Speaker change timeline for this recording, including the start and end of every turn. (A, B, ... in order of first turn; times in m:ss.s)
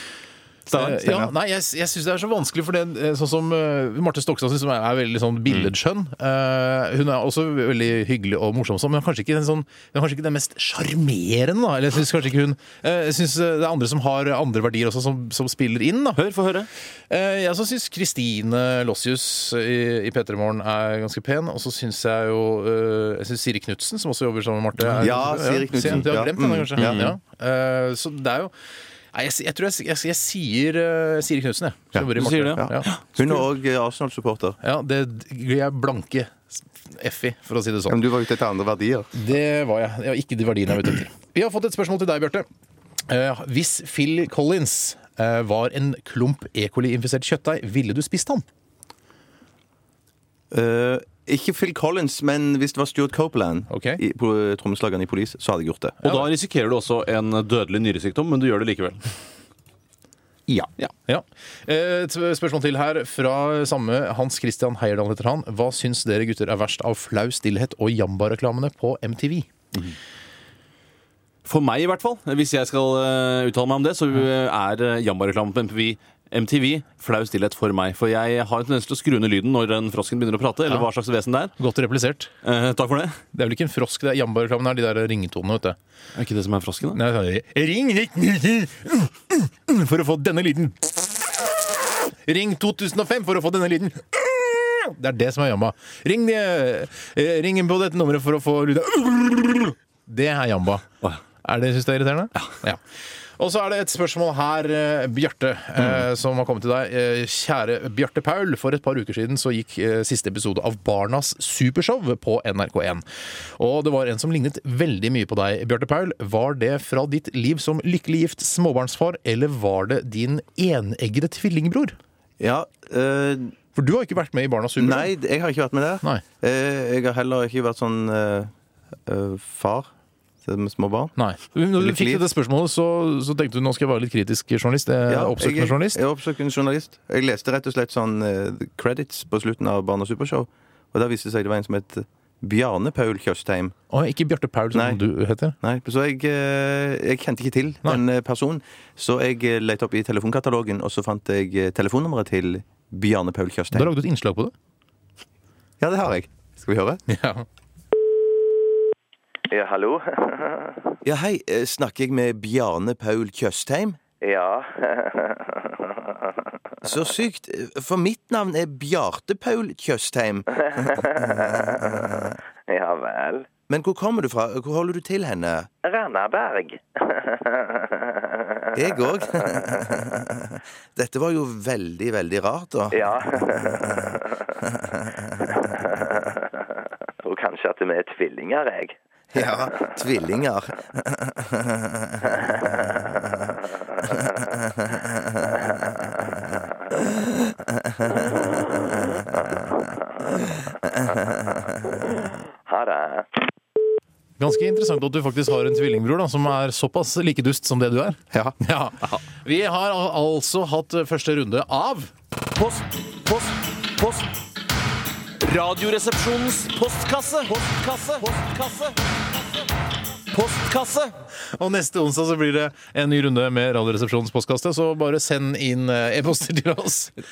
0:00.7-0:01.0 A
0:00.7-0:16.2 B
0:16.2-0:16.7 A
0:17.1-0:28.5 B
0:25.0-0:27.1 C
0:26.8-0:27.1 A
0:29.1-0:32.9 B
0:31.9-0:34.6 C
0:32.2-0:33.0 A
0:34.6-0:38.0 B
0:37.9-0:39.1 C
0:39.1-0:42.4 B
0:43.1-0:48.4 B
0:50.5-0:56.0 C
0:53.7-0:54.0 B
0:56.0-0:59.0 A
1:01.0-1:09.5 B
1:11.4-1:21.5 A
1:21.6-1:22.3 B
1:22.4-1:23.2 A
1:23.3-1:25.8 B
1:26.2-1:27.0 A
1:26.9-1:40.9 B
1:41.4-1:42.8 B
1:43.4-1:53.0 B
1:53.5-2:02.0 B
2:02.4-2:03.5 C
2:03.7-2:05.1 B
2:04.8-2:08.5 C
2:09.0-2:09.9 C
2:10.4-2:11.1 C
2:11.2-2:16.0 B
2:11.8-2:12.2 C
2:15.1-2:23.7 C
2:23.9-2:25.6 B
2:24.7-2:25.0 C
2:25.6-2:33.9 C
2:33.7-2:34.5 B
2:35.8-2:37.0 C
2:37.1-2:37.4 B
2:39.5-2:41.0 D
2:41.0-2:44.0 C
2:44.2-2:46.3 D
2:46.8-2:52.1 C
2:52.7-2:53.5 D
2:53.7-2:55.7 C
2:55.8-2:58.7 D
2:58.7-3:03.2 C
3:02.9-3:04.4 D
3:04.6-3:05.4 C
3:05.7-3:06.5 D
3:07.2-3:09.0 D
3:09.3-3:12.4 C
3:14.5-3:15.0 C
3:22.6-3:23.3 D
3:24.4-3:32.1 B
3:32.6-3:34.3 A
3:35.4-3:39.3 A
3:40.3-3:41.2 A
3:41.5-3:47.1 B